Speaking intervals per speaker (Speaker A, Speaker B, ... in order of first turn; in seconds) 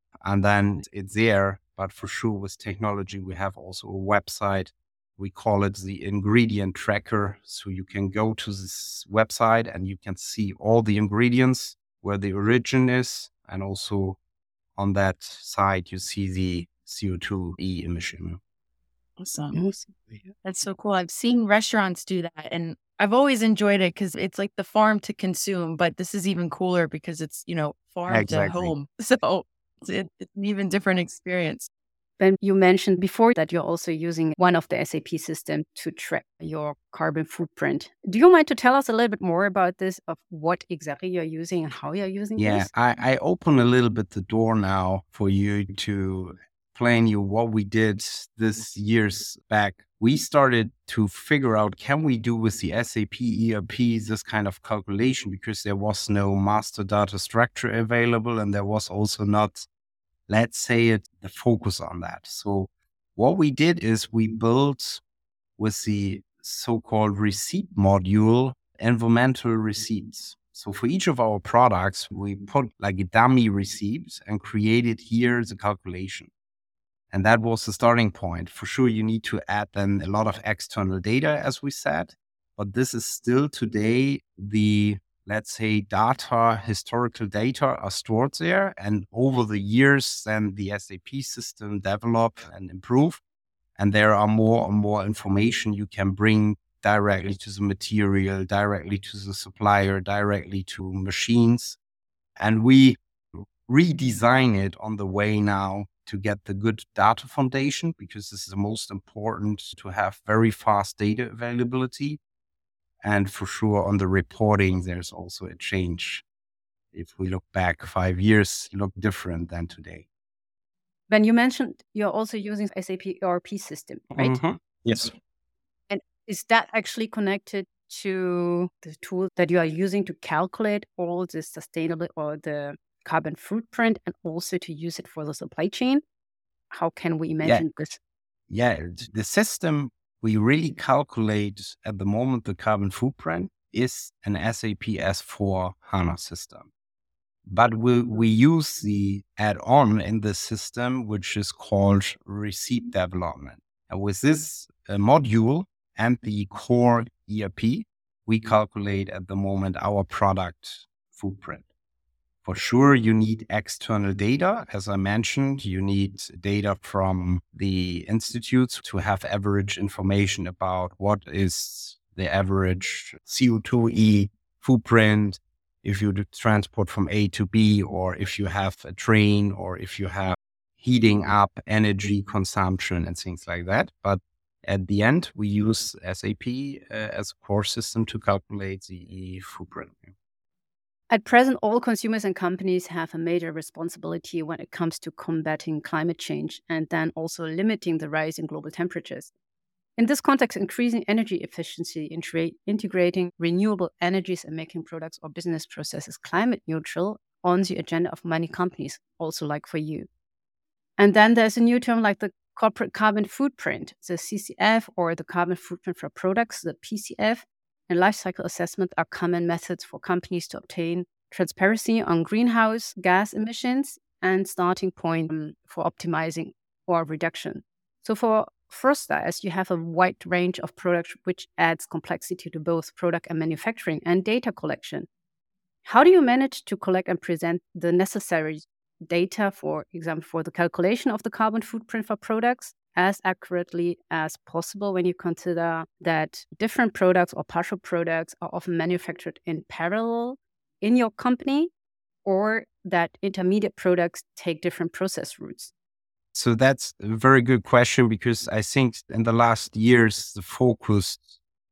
Speaker A: 0.2-14.2, 14.8-18.4, 28.1-28.7, 42.4-59.7, 60.3-65.0, 65.6-76.3, 77.1-93.2, 93.8-101.8, 102.4-112.2, 113.0-116.2, 116.9-120.1, 124.1-125.1, 137.4-137.9, 138.5-146.7, 147.5-161.7, 162.4-190.1, 256.3-261.4
Speaker B: 19.2-19.6, 20.4-31.7
Speaker C: 19.5-20.3, 32.2-42.7, 121.1-124.4, 125.9-136.0, 136.7-138.0, 191.1-199.3, 200.0-210.1, 211.0-235.1, 235.8-251.7, 252.2-255.7